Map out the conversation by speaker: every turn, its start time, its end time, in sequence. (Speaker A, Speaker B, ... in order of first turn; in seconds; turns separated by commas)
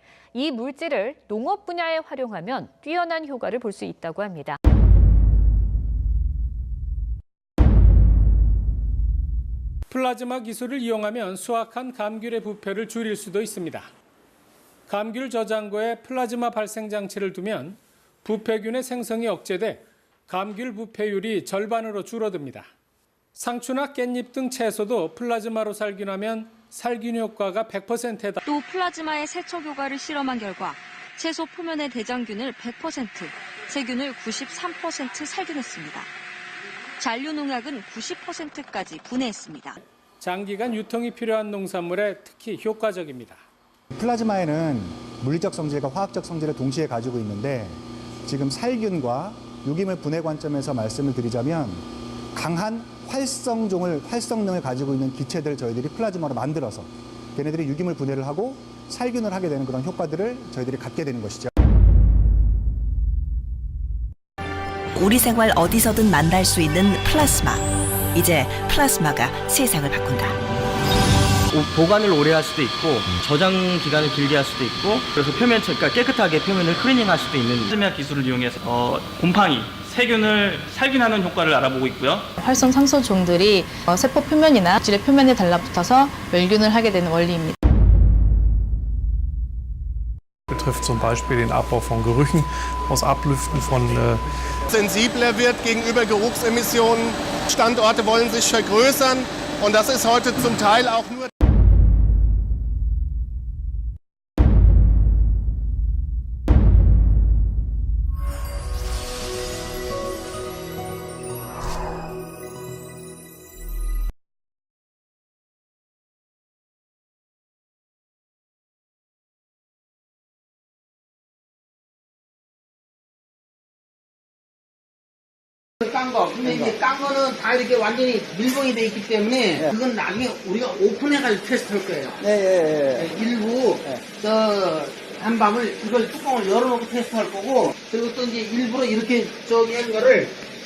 Speaker A: 0.3-4.6, Speaker B: 9.9-13.9, Speaker B: 14.9-22.7, Speaker B: 23.4-28.4, Speaker C: 28.4-36.1, Speaker C: 37.0-39.8, Speaker B: 40.2-43.4, Speaker D: 43.9-61.5, Speaker E: 65.0-67.6, Speaker E: 68.1-70.4, Speaker F: 71.5-77.7, Speaker G: 77.2-82.3, Speaker H: 82.4-87.5, Speaker I: 90.5-94.2, Speaker J: 94.7-101.3, Speaker K: 125.8-132.3, Speaker F: 132.4-133.0, Speaker K: 132.9-140.4